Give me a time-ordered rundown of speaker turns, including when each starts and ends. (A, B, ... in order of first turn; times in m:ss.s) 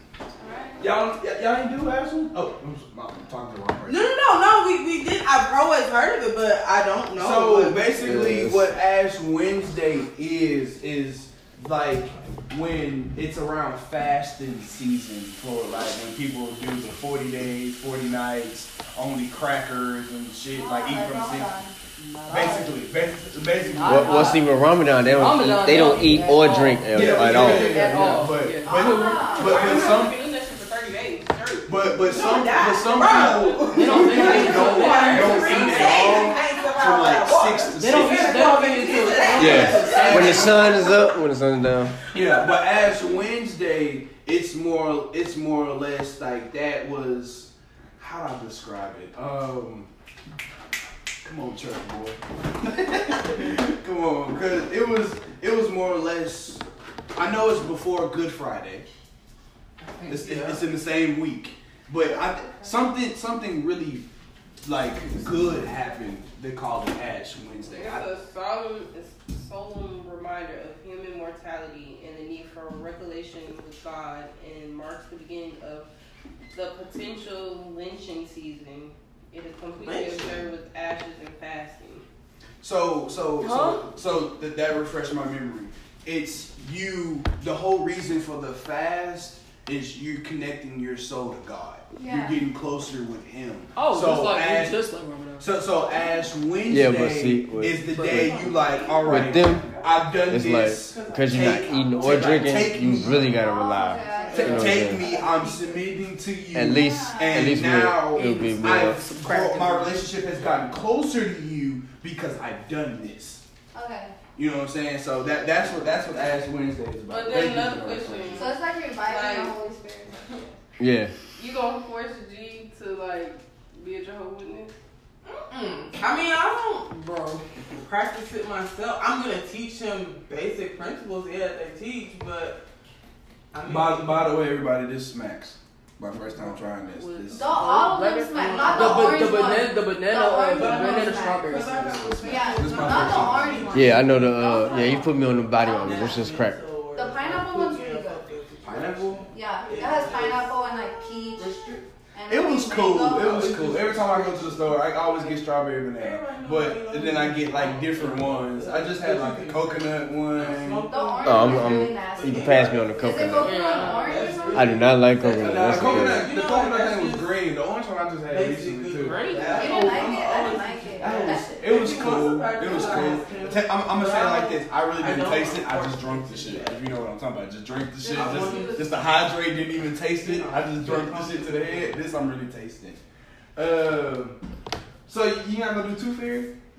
0:00.4-0:00.9 A
0:00.8-0:04.0 B
0:03.9-0:07.9 C
0:07.2-0:21.6 B
0:08.0-0:08.7 D
0:20.5-0:21.7 A
0:22.0-0:22.9 E
0:22.3-0:24.4 B
0:23.6-0:24.5 E
0:23.8-0:27.8 D
0:25.0-0:29.5 E
0:26.9-0:30.2 B
0:28.6-0:36.6 F
0:28.7-0:29.7 A
0:29.4-0:29.9 C
0:31.6-0:41.0 B
0:32.0-0:40.6 C
0:33.1-0:35.9 E
0:37.8-0:40.6 E
0:39.4-0:42.0 D
0:42.1-0:49.9 B
0:51.2-0:56.6 B
0:57.1-0:58.8 B
0:59.8-1:00.6 C
1:00.1-1:04.1 B
1:04.6-1:08.1 B
1:07.7-1:15.9 F
1:16.5-1:22.0 F
1:19.8-1:20.5 C
1:22.6-1:34.8 B
1:23.4-1:23.9 E
1:31.9-1:32.4 A
1:33.7-1:35.5 E
1:35.4-1:43.3 B
1:36.7-1:37.8 D
1:37.8-1:39.3 E
1:38.0-1:39.2 C
1:38.5-1:39.1 F
1:39.1-1:39.6 D
1:40.2-1:45.1 D
1:40.9-1:42.6 C
1:42.9-1:45.5 A
1:44.0-1:45.9 C
1:44.3-1:53.4 B
1:46.5-1:49.2 D
1:46.6-1:47.6 A
1:49.3-1:49.8 E
1:53.7-1:54.2 A
1:54.4-1:58.5 B
1:57.1-1:59.5 F
1:58.3-2:00.6 A
2:00.8-2:01.1 D
2:01.4-2:04.7 F
2:05.3-2:12.6 C
2:06.9-2:07.4 E
2:13.5-2:14.4 C
2:13.6-2:17.9 B
2:16.4-2:22.1 E
2:17.3-2:26.2 A
2:18.3-2:19.6 C
2:20.5-2:25.0 C
2:21.8-2:23.8 B
2:23.7-2:26.6 D
2:25.6-2:30.6 C
2:26.9-2:28.2 A
2:28.6-2:29.3 B
2:29.3-2:33.7 A
2:31.4-2:31.8 C
2:32.3-2:40.9 B
2:33.0-2:35.4 C
2:35.9-2:47.4 C
2:40.8-2:44.9 A
2:41.2-2:43.6 D
2:43.4-2:44.3 E
2:44.5-2:46.3 D
2:45.4-3:03.0 B
2:48.3-2:56.8 C
2:49.1-2:53.2 A
2:49.1-2:49.5 F
2:58.0-2:59.0 A
2:58.1-2:58.9 C
3:00.2-3:02.0 C
3:03.6-3:04.4 B
3:05.1-3:06.5 B